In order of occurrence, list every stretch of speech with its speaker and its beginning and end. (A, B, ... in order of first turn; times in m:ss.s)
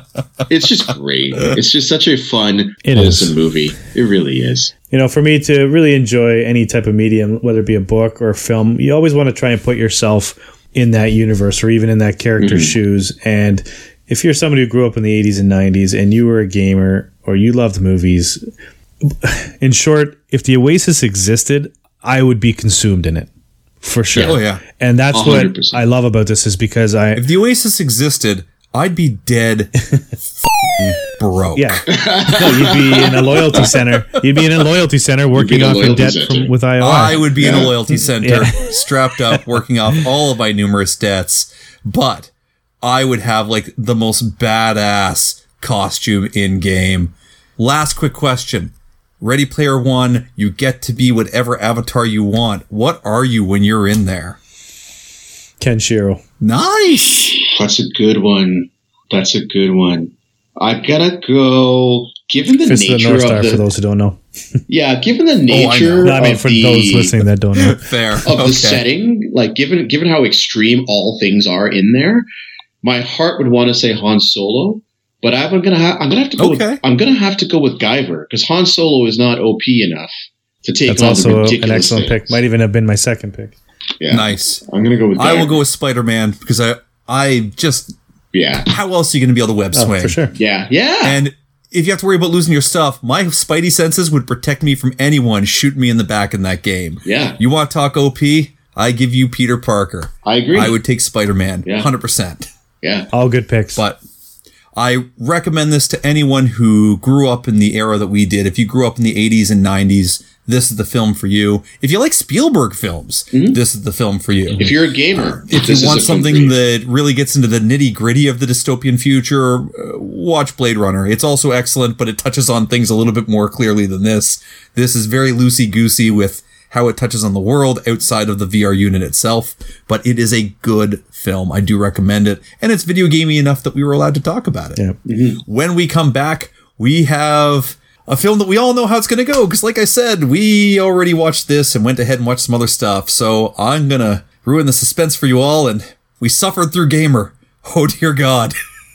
0:00.5-0:04.7 A
0:02.8-0:03.3 B
0:04.9-0:18.4 B
0:12.4-0:12.8 A
0:19.0-0:23.3 B
0:23.8-0:27.2 B
0:24.1-0:24.6 C
0:25.1-0:25.8 A
0:27.1-0:29.7 C
0:30.4-0:31.9 C
0:31.6-0:38.7 B
0:31.9-0:33.3 A
0:35.3-0:36.5 A
0:36.8-0:42.3 C
0:37.4-0:37.7 A
0:42.8-0:54.4 C
0:55.6-0:56.2 B
0:56.4-0:57.4 C
0:57.4-1:03.6 A
1:02.6-1:04.2 B
1:04.7-1:07.1 A
1:05.5-1:06.2 C
1:06.0-1:07.9 B
1:07.6-1:08.8 C
1:08.2-1:12.3 A
1:12.8-1:20.1 A
1:16.4-1:16.8 C
1:20.6-1:22.4 A
1:20.9-1:23.6 B
1:24.0-1:25.6 A
1:24.1-1:24.6 C
1:25.2-1:28.0 C
1:28.3-1:28.7 A
1:28.6-1:30.3 C
1:29.7-1:30.3 B
1:30.3-1:31.2 A
1:31.0-1:42.5 C
1:37.0-1:37.4 A
1:40.2-1:40.8 A
1:41.6-1:41.9 A
1:42.8-1:43.1 A
1:43.1-1:43.8 B
1:44.8-2:14.8 C
1:53.3-1:53.6 A
1:54.6-1:56.6 A
2:15.0-2:15.4 A
2:15.4-2:28.5 C